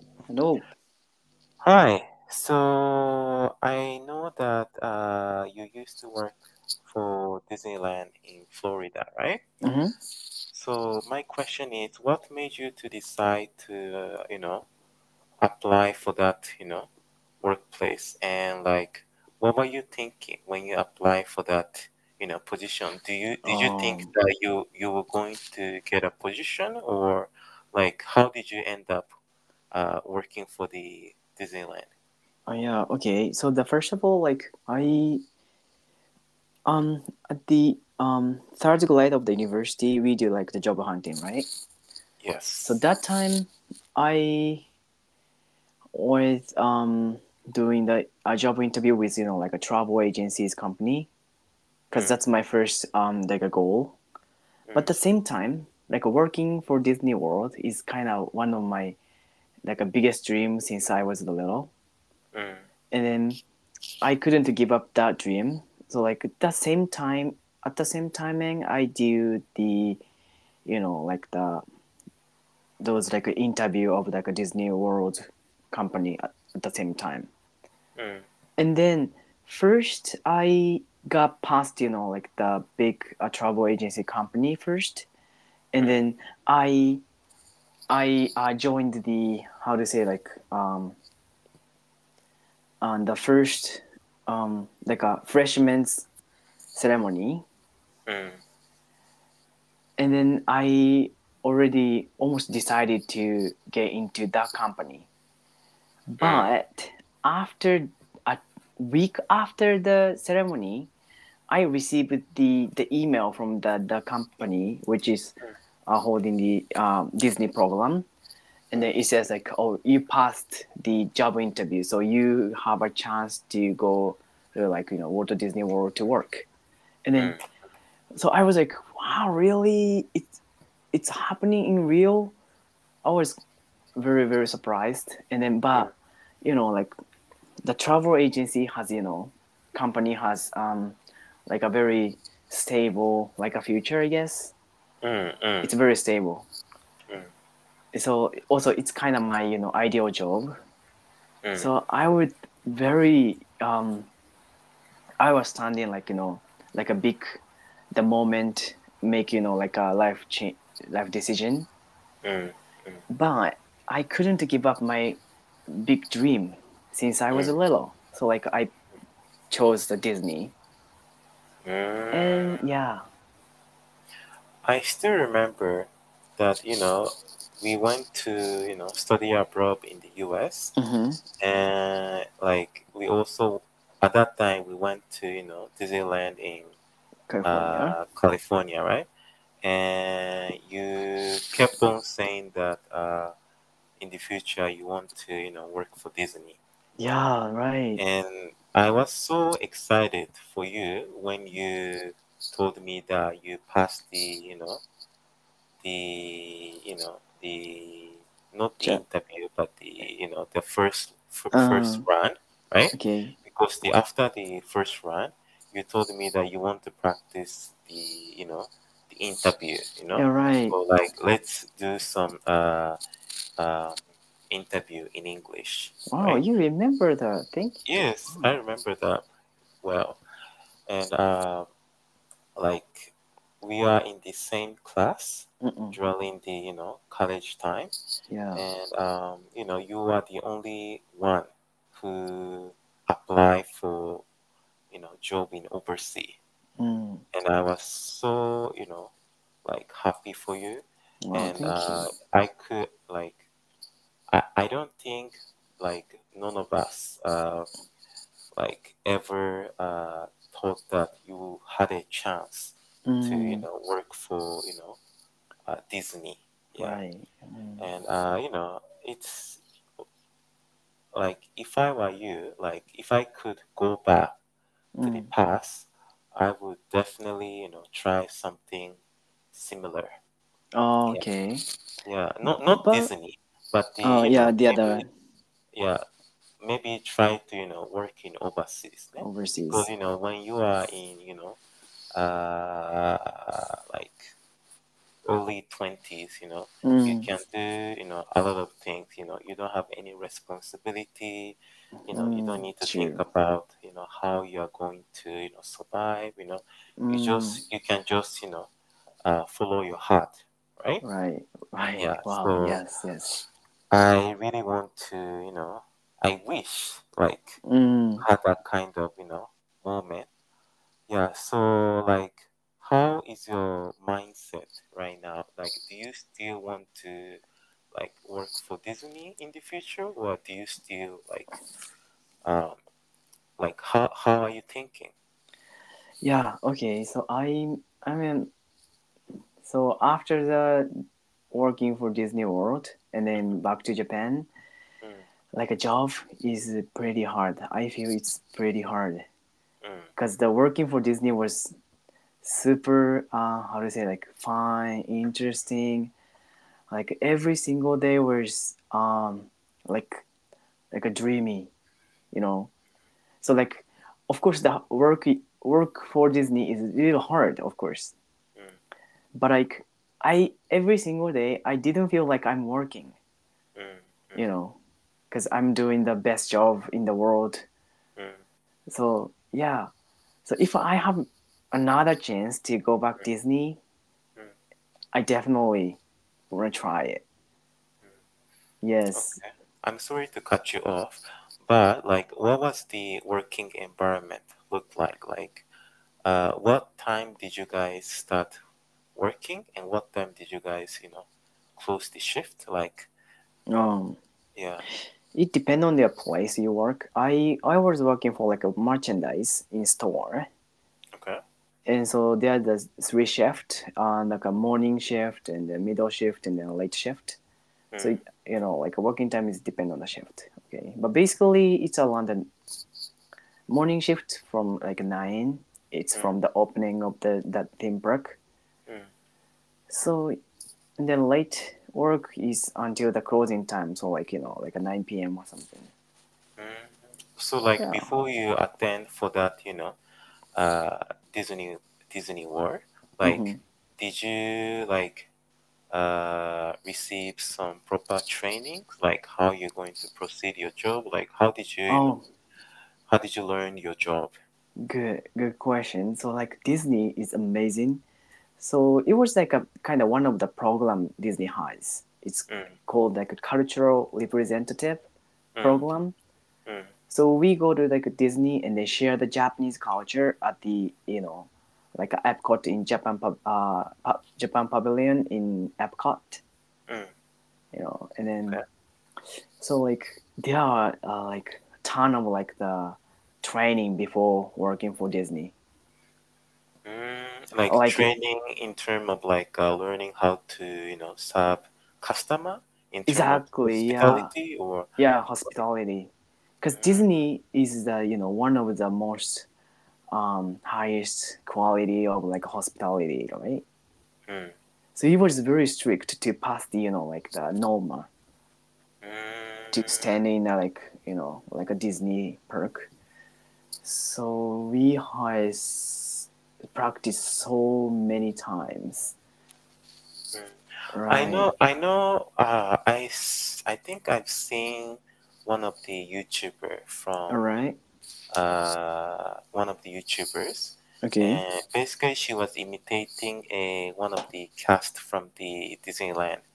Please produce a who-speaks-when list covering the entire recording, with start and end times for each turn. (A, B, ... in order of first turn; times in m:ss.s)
0:00.3-0:00.6 A
0:01.6-0:09.4 B
0:09.6-0:10.0 A
0:10.5-0:14.7 B
0:15.4-0:16.9 B
0:17.4-0:29.1 B
0:23.4-0:24.1 A
0:29.7-0:31.9 B
0:32.5-0:35.2 A
0:36.7-0:41.5 A
0:42.2-0:42.8 B
0:42.6-0:44.6 A
0:45.9-0:51.1 A
0:51.9-0:54.0 A
0:54.7-0:54.9 B
0:54.8-0:59.0 A
0:59.6-1:01.7 A
1:02.3-1:02.7 B
1:02.9-1:03.4 A
1:04.0-1:10.0 A
1:10.7-1:11.6 A
1:12.8-1:17.3 A
1:18.0-1:18.2 B
1:18.6-1:25.1 A
1:25.7-1:27.0 A
1:27.9-1:31.0 A
1:32.8-1:36.1 A
1:36.7-1:37.4 A
1:38.1-1:38.4 B
1:40.0-1:45.1 A
1:46.1-1:50.9 A
1:46.2-1:46.5 B
1:51.5-1:58.1 A
1:58.7-2:06.5 A
2:07.0-2:07.4 A
2:08.2-2:10.3 A
2:10.9-2:12.3 A
2:13.0-2:13.4 A
2:14.0-2:15.9 A
2:16.4-2:16.9 A
2:17.6-2:24.5 A
2:25.0-2:25.8 B
2:25.6-2:26.5 A
2:27.9-2:30.6 A
2:31.4-2:31.7 B
2:31.6-2:34.1 A
2:35.2-2:41.7 A
2:42.2-2:43.0 B
2:43.1-2:48.7 A
2:49.5-2:50.5 A
2:51.6-2:52.6 B
2:52.1-2:53.0 A
2:54.6-3:00.7 B
3:00.8-3:01.2 A
3:01.4-3:06.7 B
3:07.3-3:08.0 A
3:07.4-3:09.1 B
3:09.6-3:13.3 B
3:14.0-3:16.6 B
3:17.0-3:18.0 A
3:18.0-3:24.8 B
3:25.8-3:43.0 B
3:31.5-3:32.0 A
3:32.9-3:33.4 A
3:40.2-3:40.8 A
3:43.6-3:46.4 B
3:46.1-3:48.4 A
3:47.8-3:49.3 B
3:49.8-3:50.2 B
3:50.9-3:51.7 B
3:52.6-3:57.9 B
3:55.6-3:56.0 A
3:58.3-3:58.6 A
3:58.5-4:04.2 B
4:04.9-4:06.4 B
4:06.8-4:07.2 A
4:07.3-4:09.1 B
4:09.6-4:13.4 B
4:11.2-4:12.1 A
4:14.3-4:17.7 B
4:18.6-4:25.0 B
4:23.1-4:23.6 A
4:25.7-4:27.0 B
4:26.8-4:27.8 A
4:27.8-4:29.6 B
4:31.2-4:34.4 B
4:35.0-4:35.3 A
4:35.0-4:39.0 B
4:39.5-4:40.1 B
4:40.8-4:41.6 A
4:42.0-4:45.0 B
4:42.7-4:43.1 A
4:44.0-4:45.1 A
4:45.7-4:46.0 B
4:46.6-4:51.6 B
4:49.2-4:49.9 A
4:52.1-4:54.3 B
4:55.2-5:08.7 B
4:56.8-4:57.3 A
5:02.0-5:03.2 A
5:07.0-5:07.6 A
5:09.2-5:11.0 B
5:11.0-5:13.5 A
5:12.0-5:12.8 B
5:13.9-5:17.6 B
5:17.6-5:18.2 A
5:18.2-5:20.3 B
5:21.1-5:27.4 B
5:27.9-5:31.6 B
5:32.4-5:32.8 B
5:33.6-5:35.1 B
5:36.2-5:38.5 A
5:39.6-5:40.9 A
5:41.5-5:44.5 A
5:45.5-5:49.2 A
5:49.8-5:50.1 B
5:50.2-5:51.7 A
5:52.4-5:56.1 A
5:56.9-6:00.2 A
6:00.9-6:01.7 A
6:02.3-6:02.7 A
6:03.4-6:08.2 A
6:09.4-6:13.2 A
6:13.8-6:14.4 B
6:14.4-6:14.8 A
6:15.3-6:17.7 A
6:18.2-6:18.4 B
6:18.9-6:19.9 A
6:20.4-6:23.8 A
6:25.1-6:26.0 A
6:26.5-6:27.2 A
6:28.8-6:29.4 A
6:29.1-6:35.7 B
6:36.2-6:38.6 B
6:39.2-6:43.1 B
6:43.7-6:44.2 A
6:44.6-6:44.8 B
6:45.3-6:50.5 A
6:51.2-6:51.4 B
6:51.9-6:57.4 A
6:57.9-6:58.2 B
6:58.0-7:02.5 A
7:03.7-7:08.4 A
7:09.9-7:10.4 A
7:11.0-7:15.9 A
7:16.6-7:20.0 B
7:17.8-7:18.1 A
7:20.6-7:25.3 B
7:23.2-7:23.6 A
7:25.9-7:32.1 B
7:31.9-7:32.2 A
7:33.1-7:34.4 B
7:34.8-7:38.0 A
7:38.6-7:45.0 A
7:42.5-7:42.7 B
7:45.6-7:45.8 B
7:45.6-7:46.2 A
7:47.1-7:56.4 A
7:57.7-7:58.6 A
7:59.6-8:05.5 A
8:06.9-8:14.9 B
8:07.7-8:08.1 A
8:13.1-8:14.3 A
8:15.0-8:19.5 A
8:16.7-8:17.0 B
8:20.1-8:23.6 A
8:24.3-8:24.6 B
8:25.0-8:28.1 A
8:29.0-8:30.2 B
8:29.7-8:32.9 A
8:33.8-8:39.1 A
8:40.3-8:47.4 B
8:40.9-8:41.5 A
8:47.3-8:47.8 A
8:48.3-8:56.4 B
8:51.0-8:51.4 A